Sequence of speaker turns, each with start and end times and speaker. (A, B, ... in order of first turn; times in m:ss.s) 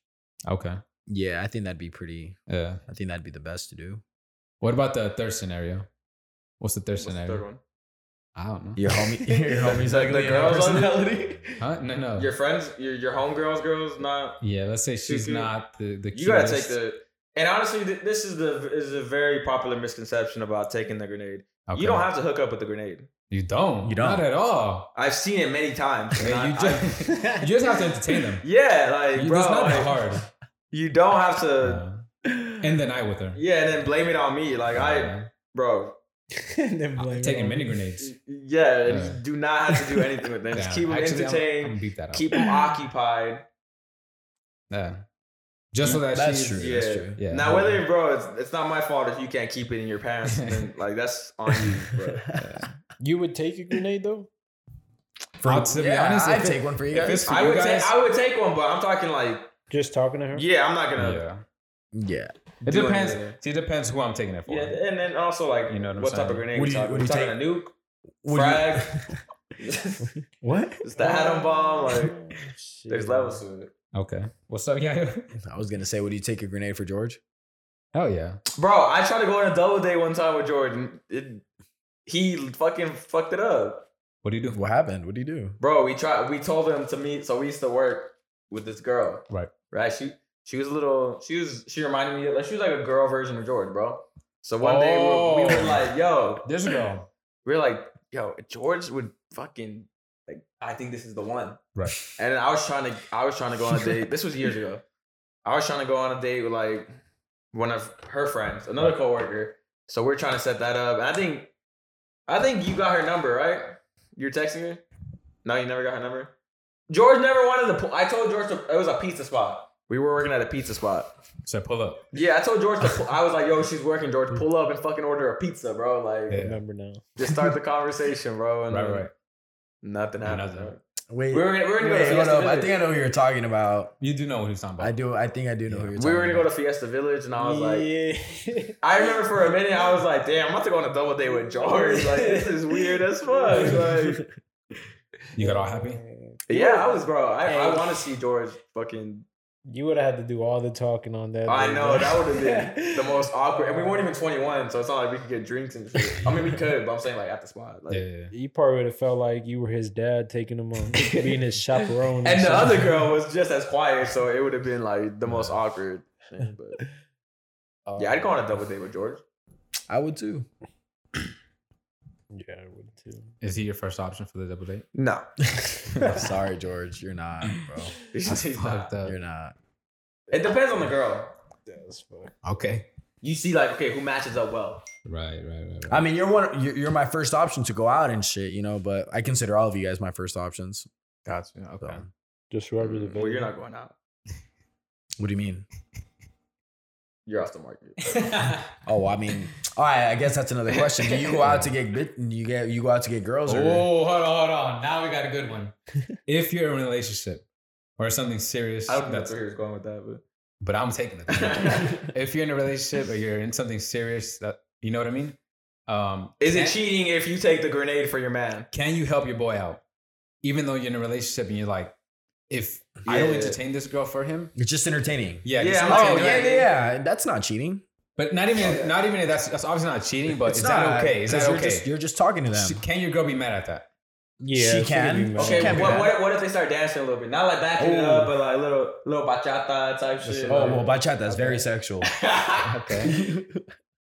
0:00.5-0:00.8 A
0:01.1-0:02.4 B
0:02.5-0:02.8 A
0:02.9-0:04.0 B
0:04.6-0:05.9 A
0:06.6-0:07.4 A
0:07.0-0:07.6 C
0:08.4-0:08.8 A
0:08.8-0:11.6 B
0:09.3-0:11.2 C
0:11.6-0:12.3 A
0:12.2-0:14.4 C
0:14.4-0:16.8 A
0:15.0-0:15.5 C
0:16.1-0:23.1 C
0:21.7-0:22.1 A
0:23.3-0:24.9 A
0:23.8-0:24.2 B
0:25.0-0:26.9 C
0:26.2-0:28.5 A
0:27.0-0:27.5 D
0:28.4-0:30.0 C
0:29.2-0:30.3 A
0:30.7-0:31.8 C
0:31.6-0:33.4 A
0:33.4-0:36.0 C
0:34.7-0:35.3 A
0:36.4-0:37.8 D
0:37.0-0:38.1 A
0:38.0-0:43.4 C
0:38.9-0:39.2 A
0:39.7-0:40.0 D
0:40.5-0:42.4 A
0:44.7-0:45.1 A
0:45.7-0:47.8 A
0:45.8-0:47.2 B
0:46.6-0:52.3 C
0:50.3-0:50.6 A
0:51.9-0:52.4 B
0:52.4-0:52.7 A
0:53.0-0:54.3 D
0:55.4-0:57.2 B
0:55.4-0:57.9 A
0:56.9-0:59.5 C
0:59.7-1:00.5 D
1:00.3-1:01.2 C
1:01.0-1:01.4 A
1:01.9-1:02.3 B
1:02.6-1:03.4 C
1:02.6-1:04.8 A
1:04.5-1:07.7 C
1:05.7-1:06.4 A
1:06.5-1:07.4 B
1:08.2-1:09.2 B
1:08.3-1:08.9 C
1:09.6-1:10.1 C
1:10.4-1:13.4 D
1:10.8-1:12.2 C
1:12.9-1:13.7 C
1:13.9-1:15.3 A
1:15.4-1:17.2 B
1:17.9-1:18.4 A
1:18.6-1:21.4 C
1:22.1-1:23.9 C
1:24.2-1:24.6 A
1:24.5-1:25.6 B
1:25.6-1:36.6 C
1:34.6-1:35.8 A
1:36.4-1:37.1 A
1:37.4-1:44.8 C
1:45.4-1:46.9 C
1:47.5-1:51.5 C
1:52.3-1:54.8 C
1:55.4-1:56.3 C
1:56.9-2:01.1 C
2:01.4-2:02.1 A
2:02.1-2:06.4 C
2:06.3-2:06.6 A
2:06.3-2:07.3 D
2:07.2-2:09.1 C
2:08.7-2:09.1 A
2:09.8-2:12.8 C
2:10.2-2:10.7 A
2:11.1-2:14.0 B
2:14.0-2:14.9 A
2:14.8-2:16.5 B
2:15.7-2:16.0 A
2:16.0-2:17.9 C
2:17.4-2:19.2 D
2:18.8-2:24.2 C
2:21.6-2:24.1 D
2:23.5-2:24.2 B
2:25.4-2:26.0 A
2:25.4-2:28.0 D
2:26.5-2:29.3 C
2:29.7-2:34.1 D
2:31.5-2:38.0 C
2:36.0-2:36.3 D
2:37.9-2:38.3 A
2:38.3-2:42.9 D
2:42.2-2:46.8 C
2:45.3-2:45.6 A
2:47.9-2:48.3 A
2:48.0-2:49.2 C
2:49.9-2:50.5 B
2:52.3-2:53.3 D
2:53.4-2:54.9 A
2:55.0-2:55.3 C
2:55.9-2:56.3 A
2:56.0-2:57.9 B
2:58.1-2:58.9 C
2:58.3-2:59.2 A
2:59.0-2:59.6 B
3:00.3-3:01.3 C
3:01.7-3:02.4 D
3:02.4-3:02.9 A
3:03.2-3:04.9 C
3:05.0-3:06.1 A
3:05.9-3:10.9 B
3:11.3-3:12.0 A
3:11.8-3:12.1 B
3:12.5-3:13.5 D
3:12.8-3:14.0 C
3:15.2-3:15.6 B
3:17.3-3:18.2 C
3:18.1-3:18.7 A
3:18.9-3:23.9 B
3:21.1-3:21.7 A
3:23.5-3:25.7 A
3:26.3-3:27.4 A
3:28.0-3:29.3 A
3:28.9-3:30.2 C
3:30.6-3:36.8 A
3:31.3-3:32.0 C
3:36.4-3:38.7 C
3:38.7-3:39.8 A
3:40.4-3:41.9 A
3:42.5-3:44.5 A
3:43.1-3:43.6 C
3:44.6-3:47.8 B
3:45.4-3:46.5 A
3:45.6-3:46.7 C
3:48.2-3:51.9 A
3:48.6-3:48.9 C
3:50.4-3:52.8 B
3:52.5-3:53.9 A
3:54.4-3:56.1 D
3:54.5-3:56.1 B
3:55.4-4:00.9 C
3:57.8-3:58.3 B
4:00.3-4:00.9 A
4:00.5-4:02.1 B
4:01.3-4:01.6 D
4:02.0-4:02.7 C
4:02.6-4:03.2 A
4:03.1-4:03.6 B